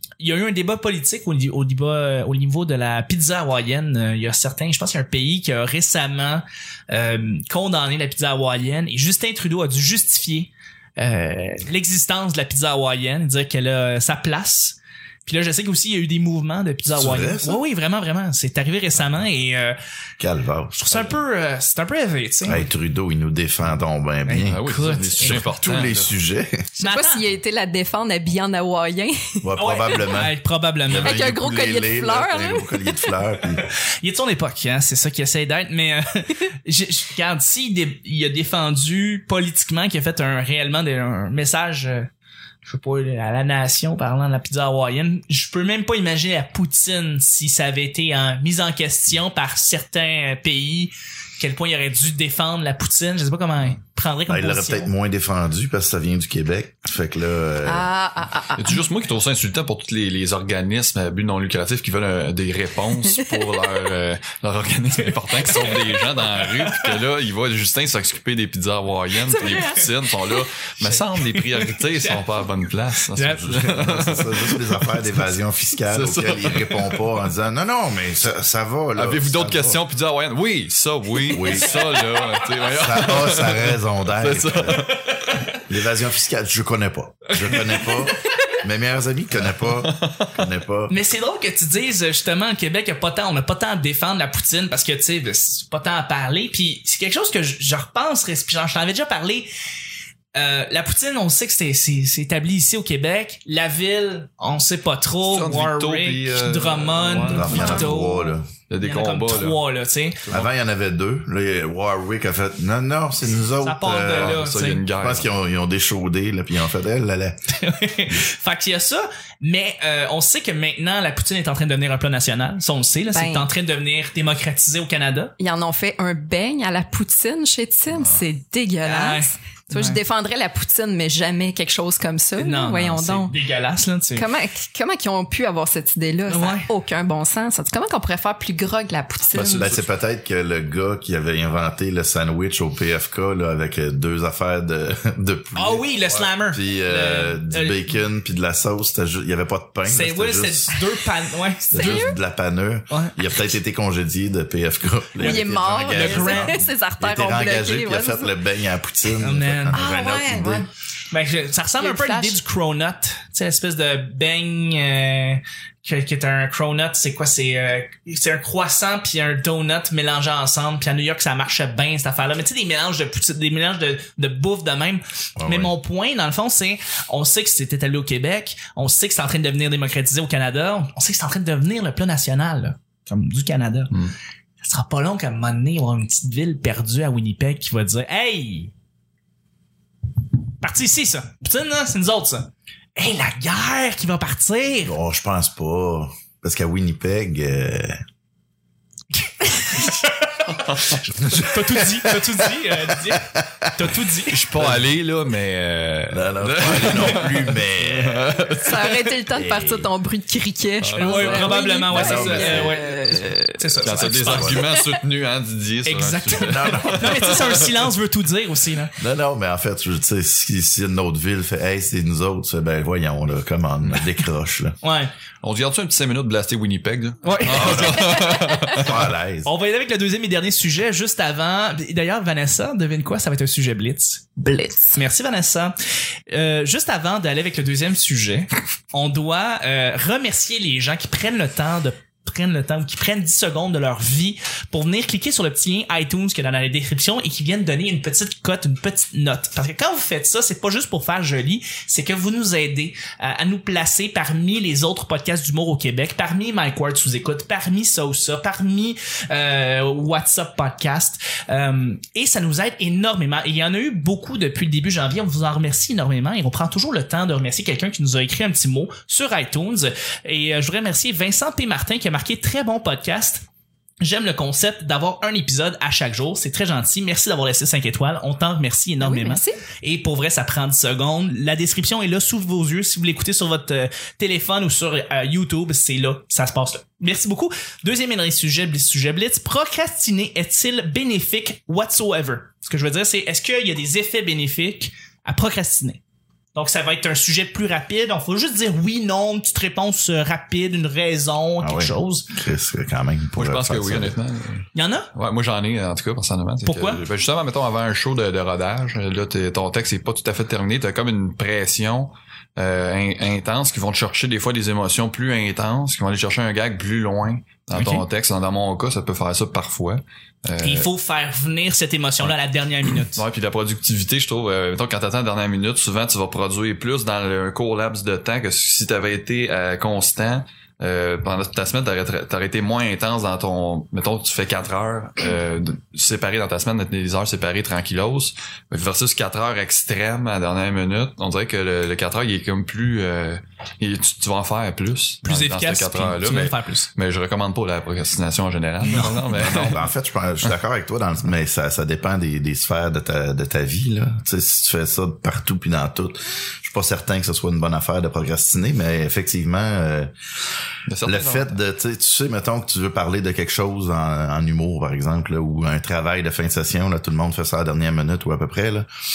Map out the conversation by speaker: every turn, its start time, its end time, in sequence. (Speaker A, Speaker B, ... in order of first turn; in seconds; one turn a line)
Speaker A: 0.2-19.7
Speaker B: 16.9-17.6
Speaker B: 20.2-21.2
Speaker A: 20.7-22.6
Speaker B: 22.4-24.6
Speaker A: 24.3-25.5
Speaker C: 24.4-26.1
Speaker B: 25.2-26.6
Speaker A: 26.8-27.2
Speaker D: 26.8-29.4
Speaker B: 29.4-33.6
Speaker A: 29.6-31.1
Speaker D: 31.0-33.1
Speaker A: 34.0-42.1
Speaker A: 42.6-54.9
Speaker B: 54.3-57.9
Speaker D: 57.6-58.8
Speaker C: 58.5-75.3
Speaker D: 63.1-63.5
Speaker A: 65.4-66.7
Speaker D: 69.2-70.4
Speaker A: 70.8-72.3
Speaker A: 73.1-73.5
Speaker B: 73.4-79.8
Speaker C: 75.9-77.2
Speaker C: 78.9-85.2
Speaker A: 81.3-82.4
Speaker B: 81.3-81.7
Speaker B: 82.8-84.8
Speaker B: 85.7-90.9
Speaker A: 87.4-88.1
Speaker C: 89.8-90.3
Speaker A: 90.9-99.5
Speaker A: 100.3-110.3
Speaker C: 105.2-107.9
Speaker B: 107.2-108.5
Speaker D: 107.5-107.8
Speaker C: 108.7-109.6
Speaker B: 110.3-114.4
Speaker A: 113.6-114.9
Speaker C: 114.0-115.3
Speaker B: 114.9-117.4
Speaker A: 117.6-125.3
Speaker D: 123.1-123.5
Speaker D: 125.4-133.3
Speaker A: 128.8-130.0
Speaker A: 132.4-134.3
Speaker D: 134.1-139.8
Speaker A: 136.2-136.7
Speaker C: 139.3-139.9
Speaker B: 139.5-145.9
Speaker A: 145.6-147.9
Speaker B: 146.4-150.8
Speaker A: 149.8-152.1
Speaker D: 151.7-152.1
Speaker B: 151.7-160.7
Speaker A: 155.2-156.6
Speaker D: 155.2-158.3
Speaker A: 159.2-159.8
Speaker D: 159.7-160.7
Speaker A: 161.1-183.9
Speaker D: 161.8-162.4
Speaker B: 175.4-175.7
Speaker A: 184.6-188.7
Speaker A: 190.6-195.0
Speaker B: 194.8-198.0
Speaker A: 199.2-204.5
Speaker C: 200.5-201.2
Speaker B: 201.2-202.3
Speaker B: 203.1-203.9
Speaker C: 204.3-209.1
Speaker B: 204.6-204.9
Speaker B: 206.1-208.3
Speaker D: 208.6-213.6
Speaker B: 209.3-209.9
Speaker C: 210.8-211.7
Speaker A: 211.0-214.6
Speaker B: 211.9-212.9
Speaker C: 213.8-217.7
Speaker B: 214.0-214.7
Speaker A: 215.8-218.9
Speaker B: 216.3-217.3
Speaker B: 219.0-224.7
Speaker A: 224.8-225.1
Speaker C: 225.4-228.9
Speaker A: 227.2-228.8
Speaker B: 227.4-228.3
Speaker B: 228.8-229.5
Speaker A: 229.4-234.3
Speaker D: 234.4-235.0
Speaker A: 234.9-235.7
Speaker A: 236.3-273.4
Speaker A: 274.0-296.0
Speaker D: 279.0-279.6
Speaker A: 296.5-302.2
Speaker B: 301.6-304.2
Speaker C: 303.3-320.9
Speaker A: 304.7-305.1
Speaker A: 306.6-307.0
Speaker A: 317.8-318.0
Speaker A: 320.6-323.2
Speaker C: 322.2-349.8
Speaker A: 345.2-346.9
Speaker A: 348.8-349.2
Speaker B: 349.3-360.1
Speaker C: 360.9-361.6
Speaker B: 361.0-368.9